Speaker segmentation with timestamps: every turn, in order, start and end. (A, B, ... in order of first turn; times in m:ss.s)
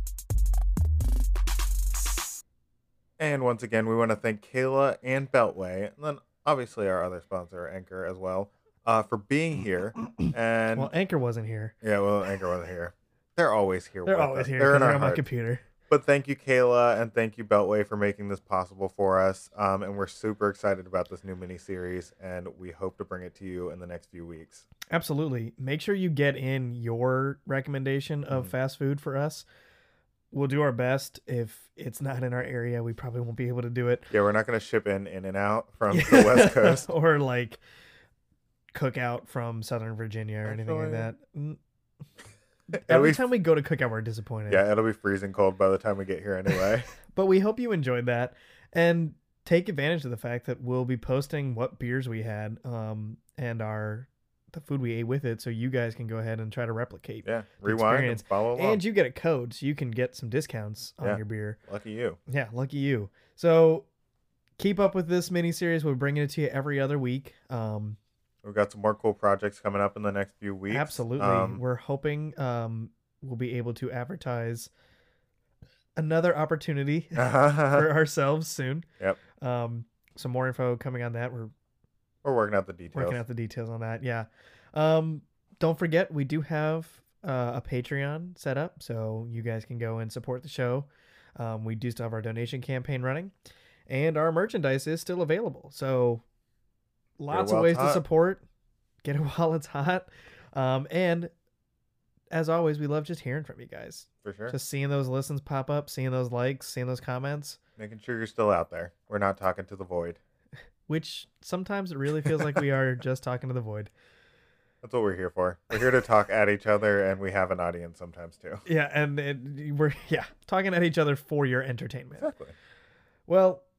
0:03.2-0:10.9 A
0:10.7-0:11.7 B
0:11.8-0:15.3 A
0:14.0-0:15.6 B
0:15.9-0:24.6 A
0:24.9-0:29.4 B
0:30.3-0:34.1 B
0:34.1-0:36.9 A
0:35.9-0:37.6 B
0:38.7-0:41.6 B
0:40.4-0:41.1 A
0:42.7-0:44.7 B
0:42.8-0:43.3 A
0:44.5-0:46.9 A
0:47.1-1:01.6 B
0:57.2-0:58.8 A
1:01.0-1:02.2 A
1:02.3-1:03.8 B
1:04.6-1:08.0 B
1:08.4-1:11.6 A
1:10.7-1:14.7 B
1:16.0-1:18.8 B
1:17.1-1:18.0 A
1:19.4-1:21.5 B
1:22.2-1:23.2 A
1:22.9-1:33.3 B
1:33.9-1:36.2 B
1:37.2-1:38.4 B
1:37.3-1:38.0 A
1:39.0-1:41.3 B
1:42.3-1:47.6 B
1:44.2-1:44.5 A
1:47.8-1:50.2 A
1:50.9-1:53.9 B
1:54.8-1:58.6 A
1:58.6-2:02.3 B
2:02.2-2:02.5 A
2:03.3-2:03.6 B